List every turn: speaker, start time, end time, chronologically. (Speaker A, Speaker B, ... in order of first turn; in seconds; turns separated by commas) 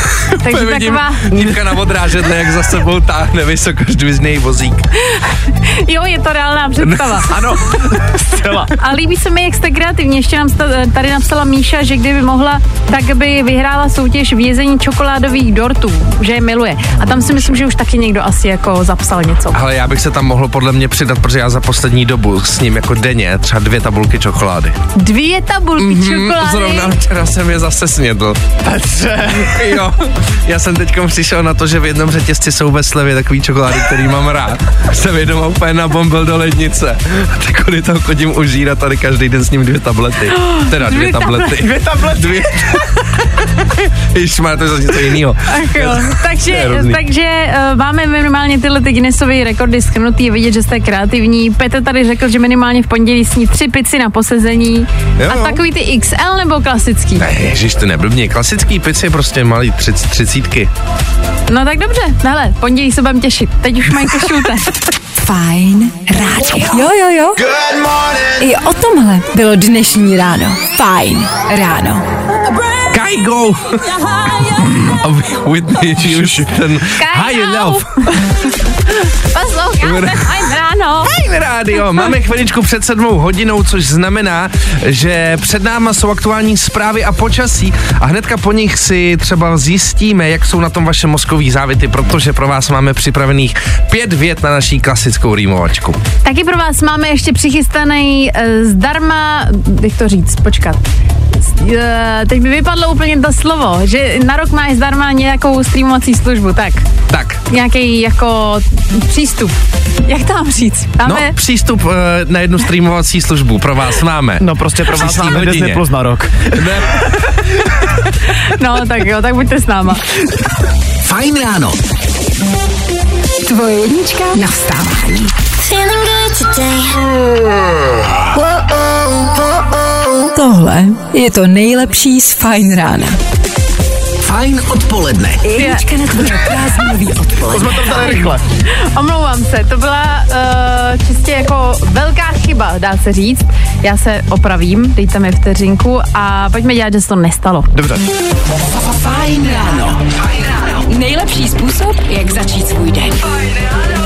Speaker A: 0.3-4.9, Speaker B: 0.4-1.4, Speaker B: 5.1-7.3, Speaker A: 6.8-7.2, Speaker C: 7.3-8.7, Speaker B: 8.7-19.6, Speaker A: 19.5-24.8, Speaker B: 24.9-26.9, Speaker A: 25.8-28.4, Speaker C: 28.6-29.8, Speaker A: 29.4-47.0, Speaker B: 40.4-41.5, Speaker C: 41.5-42.8, Speaker B: 45.5-57.3, Speaker A: 55.2-55.6, Speaker A: 57.2-60.7, Speaker B: 61.5-64.8, Speaker D: 65.2-67.5, Speaker D: 68.4-72.1, Speaker A: 72.9-77.8, Speaker C: 76.0-76.5, Speaker B: 77.0-78.3, Speaker B: 78.9-81.1, Speaker A: 79.8-80.4, Speaker A: 81.0-96.0, Speaker B: 96.2-100.8, Speaker B: 101.4-106.8, Speaker A: 107.1-107.4, Speaker B: 107.5-111.3, Speaker A: 111.0-115.8, Speaker C: 114.4-117.1, Speaker A: 116.5-117.4, Speaker B: 118.4-120.0, Speaker E: 121.0-121.8, Speaker D: 123.4-125.3, Speaker D: 130.3-133.2, Speaker E: 134.2-135.4, Speaker D: 135.4-138.1, Speaker B: 135.6-135.8, Speaker C: 137.5-138.4, Speaker B: 138.7-147.7, Speaker C: 147.7-148.0, Speaker D: 148.7-153.4